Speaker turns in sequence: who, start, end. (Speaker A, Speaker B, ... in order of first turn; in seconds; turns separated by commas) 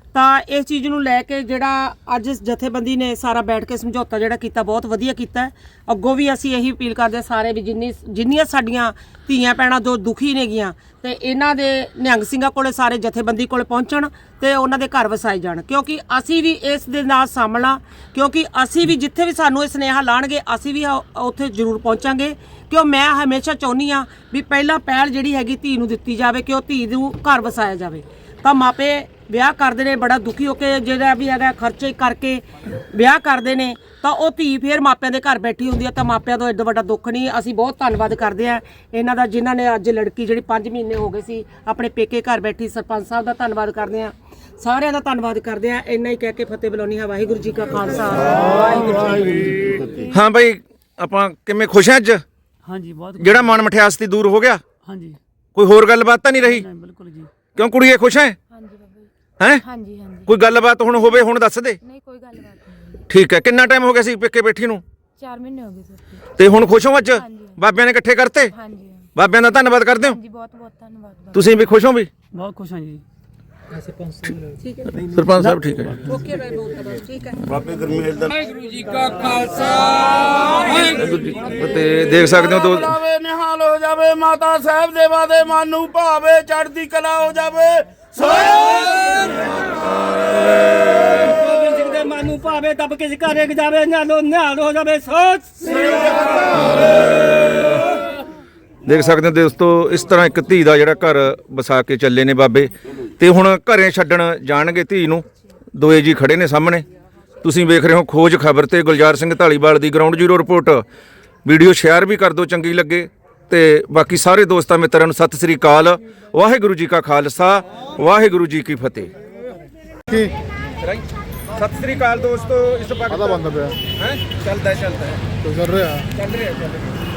Speaker A: 0.1-49.7, Speaker B: 50.1-52.2, Speaker C: 52.6-53.6, Speaker B: 53.2-54.6, Speaker C: 54.8-55.2, Speaker B: 55.5-56.6, Speaker C: 56.4-57.3, Speaker B: 57.5-58.4, Speaker C: 58.5-59.1, Speaker B: 59.4-59.6, Speaker C: 59.7-60.2, Speaker B: 60.2-61.8, Speaker D: 61.9-62.6, Speaker C: 61.9-63.0, Speaker B: 63.1-64.8, Speaker D: 65.2-66.0, Speaker C: 65.4-66.2, Speaker B: 66.3-68.5, Speaker D: 68.5-68.9, Speaker B: 69.1-70.2, Speaker D: 70.2-71.3, Speaker C: 70.4-71.5, Speaker B: 71.3-72.1, Speaker C: 72.3-73.0, Speaker B: 74.9-76.2, Speaker E: 77.5-81.0, Speaker B: 80.9-82.9, Speaker E: 81.9-89.7, Speaker C: 90.9-97.4, Speaker B: 98.8-105.2, Speaker B: 105.8-106.8, Speaker B: 107.4-110.8, Speaker B: 111.4-119.1, Speaker B: 121.5-125.2, Speaker B: 126.2-126.7